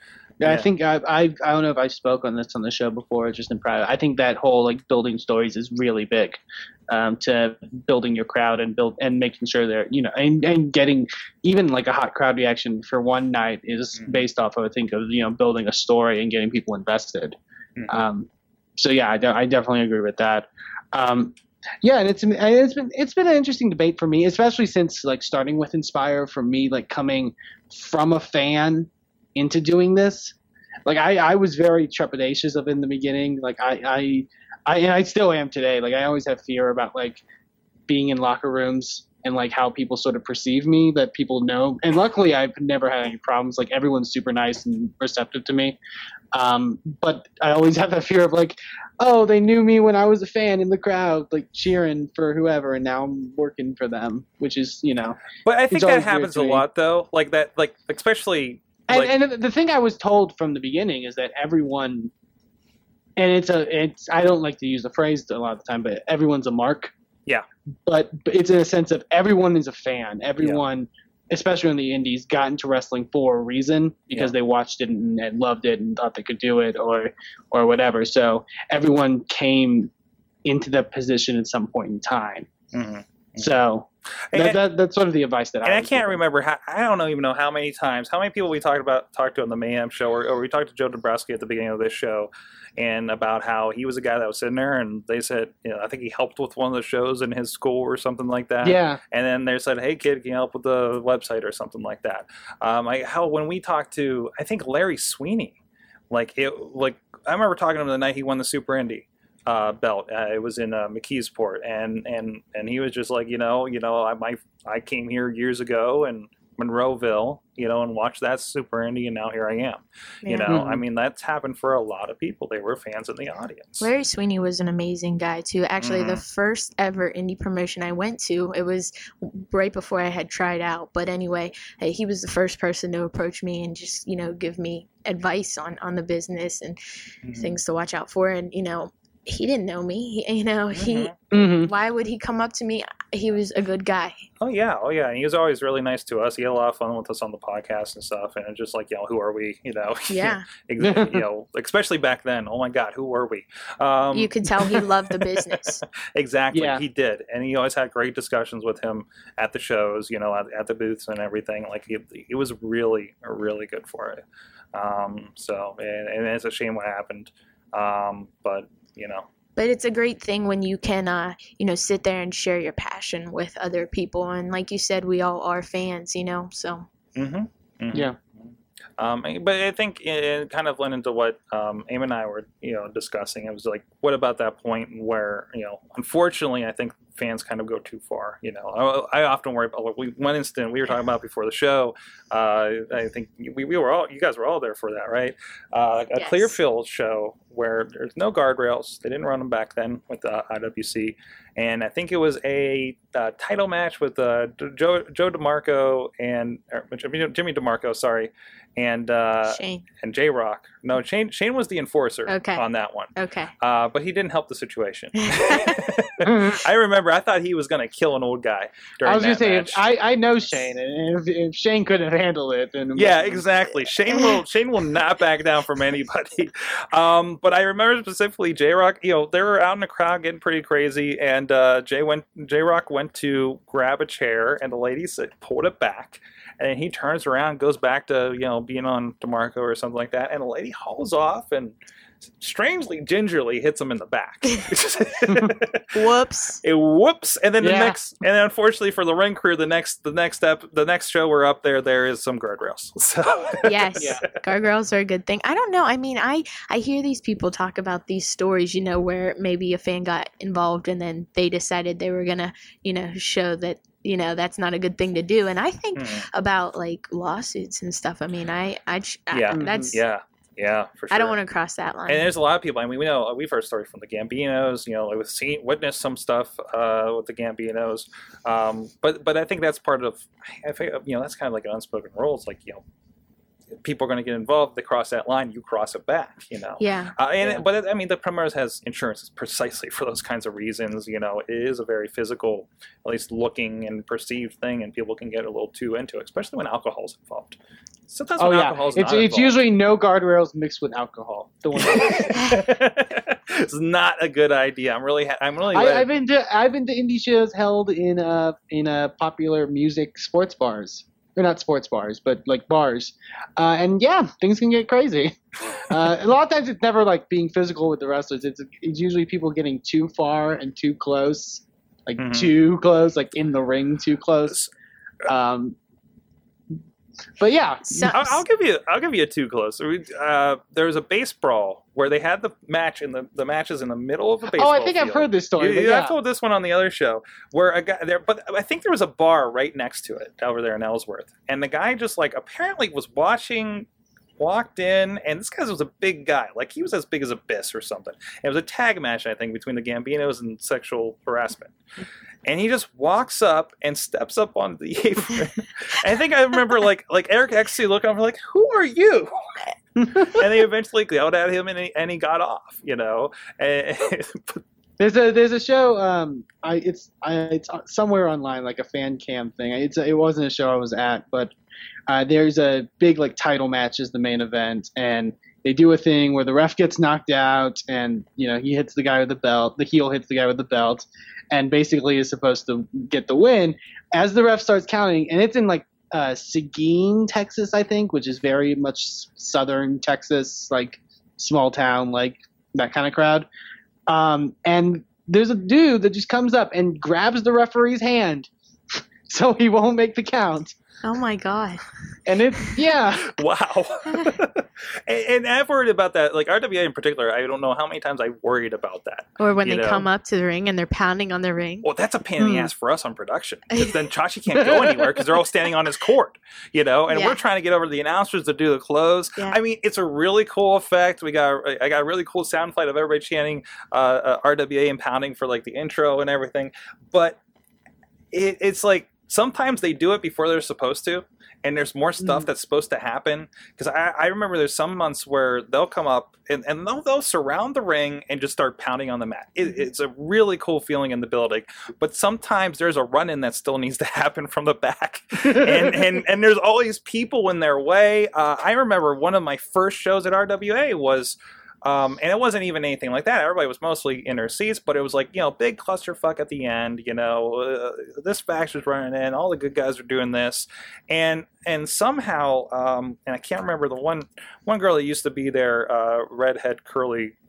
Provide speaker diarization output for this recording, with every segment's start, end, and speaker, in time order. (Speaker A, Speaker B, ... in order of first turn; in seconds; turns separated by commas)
Speaker A: 0.4-17.4, Speaker B: 0.4-0.7, Speaker A: 17.9-37.2, Speaker A: 37.9-45.8, Speaker A: 46.3-55.2, Speaker B: 55.4-59.1, Speaker A: 55.7-56.6, Speaker A: 58.9-62.1, Speaker A: 63.2-66.9, Speaker A: 67.9-79.9, Speaker A: 80.4-82.5, Speaker B: 82.7-83.5, Speaker A: 83.4-86.2, Speaker B: 84.3-84.6, Speaker B: 85.6-105.6, Speaker A: 98.6-99.0, Speaker B: 106.1-123.9, Speaker C: 120.2-120.6, Speaker A: 120.5-120.8, Speaker C: 123.8-136.8, Speaker B: 125.8-126.2, Speaker B: 137.2-137.6, Speaker C: 137.4-144.2, Speaker B: 140.7-141.1, Speaker A: 141.3-141.7, Speaker B: 144.4-155.6, Speaker C: 150.1-150.4, Speaker A: 150.8-151.2, Speaker C: 154.1-155.8, Speaker B: 156.1-164.2, Speaker A: 156.5-156.8, Speaker B: 164.7-169.3, Speaker C: 169.6-176.9, Speaker B: 177.2-178.1, Speaker B: 179.0-219.8, Speaker C: 196.2-196.6, Speaker C: 209.5-209.8, Speaker C: 212.3-213.5, Speaker C: 215.2-215.9, Speaker A: 216.2-216.6, Speaker A: 219.0-223.4, Speaker B: 222.9-241.7, Speaker B: 242.4-245.9, Speaker C: 245.9-246.6, Speaker B: 246.6-254.1, Speaker A: 247.6-248.0, Speaker C: 253.6-270.0, Speaker B: 265.9-266.3, Speaker B: 269.3-271.4, Speaker A: 269.6-269.9, Speaker C: 271.1-272.3, Speaker B: 272.1-282.8, Speaker B: 283.8-297.6, Speaker C: 286.8-287.2, Speaker B: 298.1-299.6, Speaker A: 298.4-302.5, Speaker B: 301.8-306.1, Speaker A: 305.7-324.6, Speaker B: 322.2-322.6, Speaker A: 325.3-325.8, Speaker A: 327.4-328.2, Speaker C: 327.9-328.4, Speaker B: 328.1-351.8, Speaker A: 334.5-336.1, Speaker B: 352.4-364.6, Speaker A: 360.0-360.3, Speaker A: 365.0-371.5, Speaker A: 372.1-393.5, Speaker A: 394.1-400.8, Speaker C: 401.0-401.8, Speaker A: 402.3-403.3, Speaker C: 402.5-402.8, Speaker B: 403.2-410.1, Speaker C: 409.4-411.9, Speaker B: 411.8-427.4, Speaker A: 412.4-412.7, Speaker C: 417.1-417.4, Speaker B: 428.3-467.3, Speaker A: 445.6-445.9